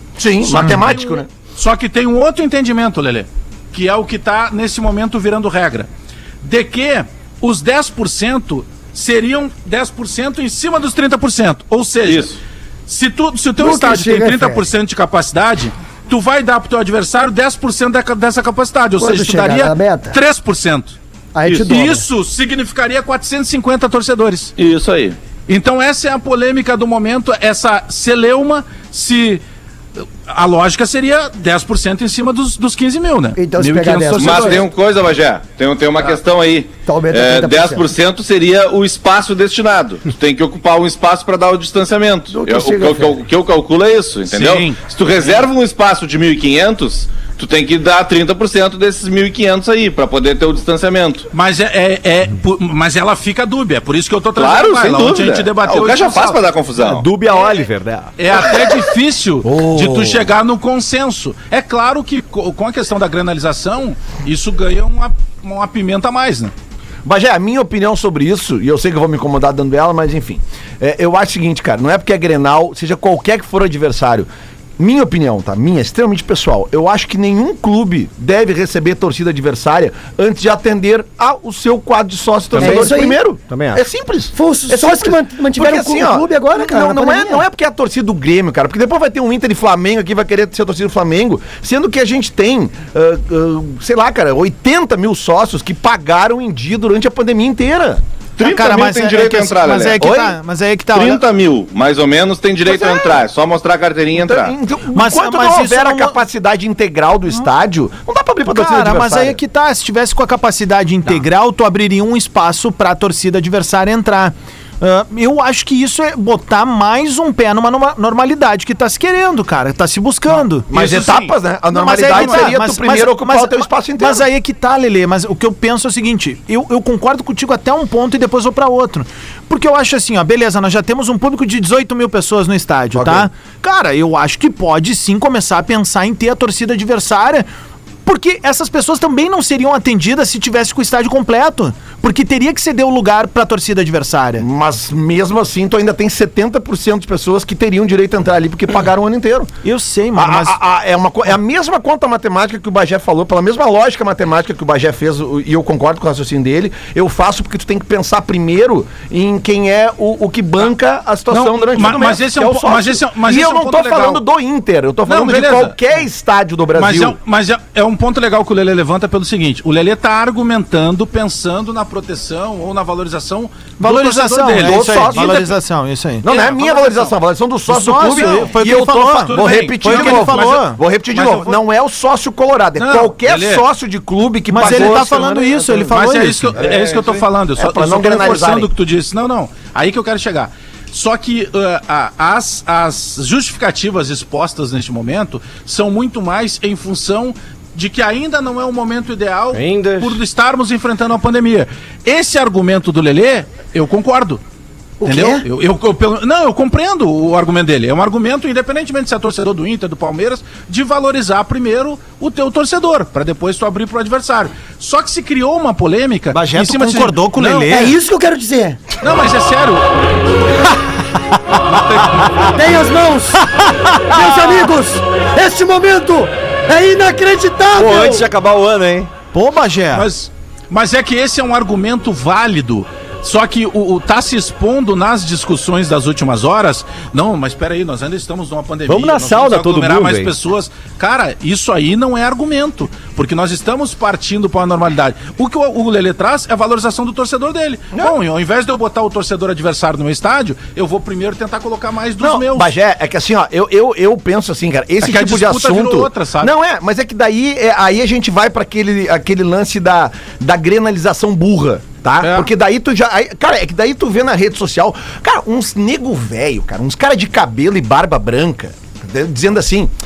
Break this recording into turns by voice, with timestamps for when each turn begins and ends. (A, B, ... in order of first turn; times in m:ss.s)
0:00.2-0:01.3 A
0:00.4-0:05.9 B
0:06.4-0:12.3 B
0:12.0-0:12.4 C
0:12.9-0:24.5 B
0:13.6-0:14.6 D
0:19.0-0:20.1 D
0:21.3-0:22.0 D
0:24.6-0:25.2 C
0:25.5-0:29.4 B
0:30.0-0:34.6 B
0:33.4-0:34.6 D
0:34.2-0:51.3 C
0:36.8-0:37.9 D
0:42.3-0:43.2 D
0:44.3-0:44.8 B
0:51.3-0:56.4 B
0:54.3-0:57.1 C
0:56.8-0:58.1 E
0:58.2-1:06.5 B
0:59.5-1:00.2 A
1:07.0-1:14.3 A
1:14.8-1:38.0 A
1:22.5-1:23.8 E
1:22.5-1:23.2 D
1:24.3-1:27.4 D
1:38.4-1:40.2 C
1:38.4-1:41.2 F
1:40.0-1:40.3 A
1:40.9-1:44.5 C
1:42.6-1:43.2 A
1:44.2-1:49.4 A
1:44.9-1:46.2 F
1:48.5-2:17.5 F
2:00.7-2:04.3 A
2:02.0-2:02.5 B
2:13.0-2:13.3 A
2:18.0-2:24.4 F
2:24.4-2:29.5 A
2:29.6-2:30.6 F
2:30.1-2:47.2 A
2:41.3-2:44.2 B
2:45.0-2:45.8 B
2:46.8-2:55.5 B
2:53.8-2:56.2 F
2:54.6-2:55.5 A
2:56.2-3:05.9 A
2:56.2-2:57.2 B
2:57.7-3:00.8 F
2:58.1-2:58.6 B
2:59.2-3:01.6 B
3:02.8-3:03.6 B
3:04.5-3:06.6 F
3:04.6-3:04.9 B
3:05.9-3:24.4 B
3:06.6-3:07.0 A
3:06.6-3:07.2 C
3:07.6-3:08.7 A
3:19.5-3:20.2 E
3:25.0-3:25.4 D
3:25.0-3:37.9 B
3:36.3-3:37.9 F
3:37.7-3:38.8 D
3:39.0-3:39.9 B
3:41.6-3:42.5 B
3:42.5-3:43.4 D
3:44.0-3:48.3 D
3:44.1-3:44.7 E
3:47.7-3:49.1 E
3:49.3-3:50.1 F
3:49.9-4:12.7 B
3:58.9-4:00.3 E
4:12.2-4:29.9 A
4:15.0-4:16.5 B
4:22.2-4:22.5 B